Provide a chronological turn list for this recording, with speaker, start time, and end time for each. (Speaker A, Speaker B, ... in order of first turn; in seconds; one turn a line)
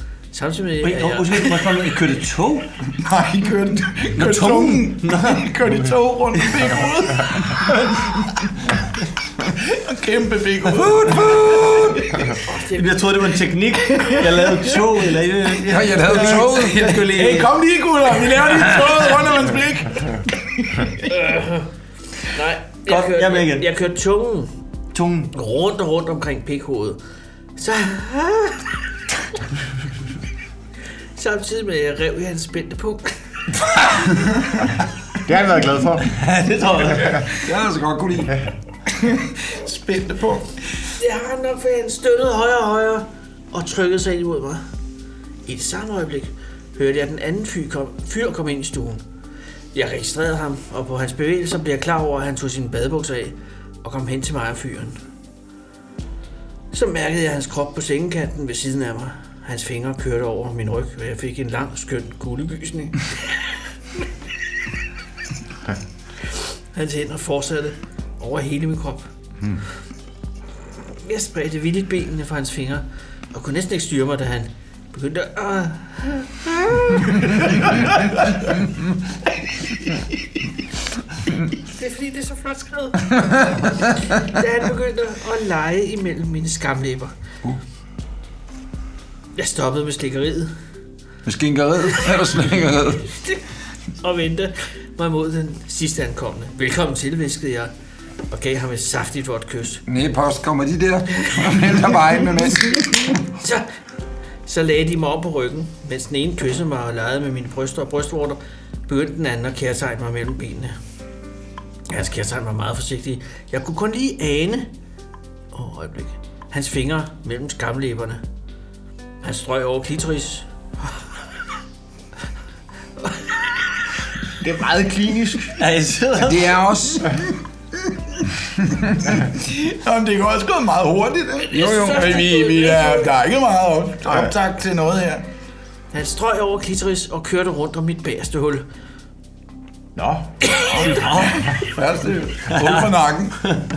Speaker A: 0.3-1.5
Speaker B: 0.8-2.7
Speaker C: 3.0-8.6
Speaker B: 4.2-5.5
Speaker C: 9.4-12.0
Speaker D: 10.8-12.1
Speaker A: 12.4-13.0
Speaker B: 12.7-17.5
Speaker D: 15.6-17.0
Speaker C: 15.9-20.9
Speaker A: 21.0-21.7
Speaker A: 22.3-24.5
Speaker B: 22.9-23.7
Speaker B: 24.9-25.3
Speaker A: 25.3-27.0
Speaker A: 27.6-28.8
Speaker A: 31.1-33.1
Speaker E: 35.2-36.2
Speaker B: 36.0-37.3
Speaker D: 37.3-38.4
Speaker C: 38.9-40.5
Speaker A: 41.0-44.6
Speaker A: 45.5-49.0
Speaker A: 49.7-55.0
Speaker A: 56.7-63.4
Speaker A: 66.3-69.1
Speaker A: 70.9-77.6
Speaker A: 81.6-87.1
Speaker A: 89.4-90.5
Speaker D: 91.2-93.1
Speaker A: 94.0-97.7
Speaker A: 98.3-99.8
Speaker D: 99.9-103.3
Speaker A: 103.4-103.7
Speaker A: 104.5-110.8
Speaker A: 111.9-114.7
Speaker A: 115.5-118.2
Speaker A: 119.2-120.5
Speaker A: 123.0-123.6
Speaker E: 124.4-125.6
Speaker B: 125.6-126.6
Speaker D: 126.2-127.2
Speaker C: 129.1-135.2
Speaker A: 131.5-133.1
Speaker D: 131.5-132.1
Speaker A: 135.9-138.6
Speaker A: 140.4-141.0
Speaker C: 140.7-143.4
Speaker B: 140.8-141.5
Speaker B: 142.6-142.8